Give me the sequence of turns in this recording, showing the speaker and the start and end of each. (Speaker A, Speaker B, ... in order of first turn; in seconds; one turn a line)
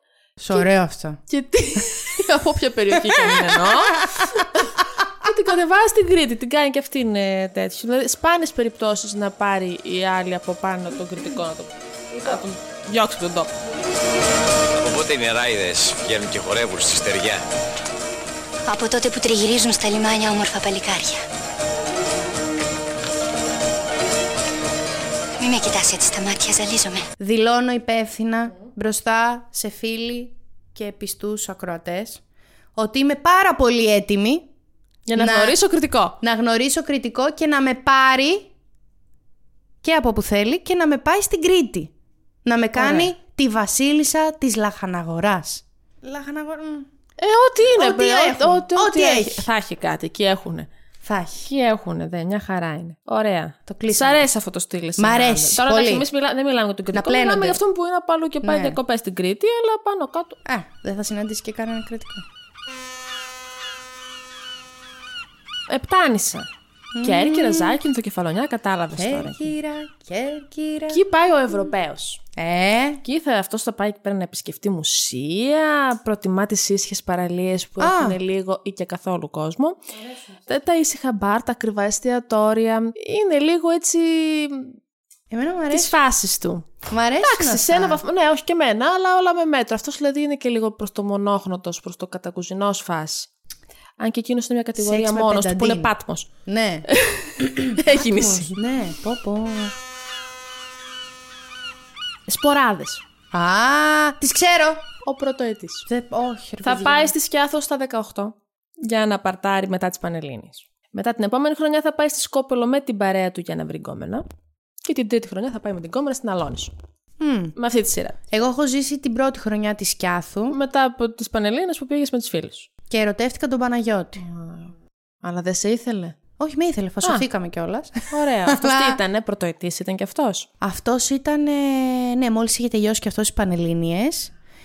Speaker A: 0.4-1.2
Speaker B: 1.3-13.5
Speaker C: 14.8-17.4
Speaker D: 18.6-21.2
Speaker D: 25.4-27.1
Speaker A: 27.2-32.2
Speaker A: 32.8-34.5
Speaker B: 35.1-36.2
Speaker A: 35.2-35.6
Speaker A: 36.2-38.5
Speaker A: 39.8-41.9
Speaker A: 42.4-46.9
Speaker B: 42.8-43.1
Speaker B: 47.2-50.7
Speaker A: 47.8-49.5
Speaker A: 51.0-51.5
Speaker B: 51.5-60.4
Speaker A: 53.7-54.3
Speaker A: 55.0-56.1
Speaker A: 56.9-57.6
Speaker A: 58.4-58.8
Speaker A: 60.5-62.2
Speaker B: 65.7-66.5
Speaker A: 66.9-67.8
Speaker B: 67.0-69.5
Speaker A: 69.0-71.0
Speaker B: 70.9-72.2
Speaker A: 72.4-73.0
Speaker B: 73.0-79.8
Speaker A: 77.8-78.2
Speaker B: 80.5-84.8
Speaker A: 85.3-85.9
Speaker B: 85.7-86.7
Speaker A: 86.9-88.0
Speaker B: 87.2-93.3
Speaker B: 94.0-96.3
Speaker A: 94.8-95.9
Speaker A: 96.5-96.8
Speaker B: 96.9-98.6
Speaker A: 97.5-99.7
Speaker B: 102.3-103.0
Speaker A: 103.3-104.9
Speaker B: 105.0-105.9
Speaker A: 105.9-107.1
Speaker B: 106.6-114.2
Speaker B: 114.8-116.7
Speaker A: 117.2-117.5
Speaker B: 117.6-118.1
Speaker A: 118.3-120.6
Speaker B: 120.5-122.7
Speaker A: 122.9-124.2
Speaker B: 124.2-126.2
Speaker A: 126.4-129.0
Speaker B: 128.1-130.5
Speaker A: 130.6-134.3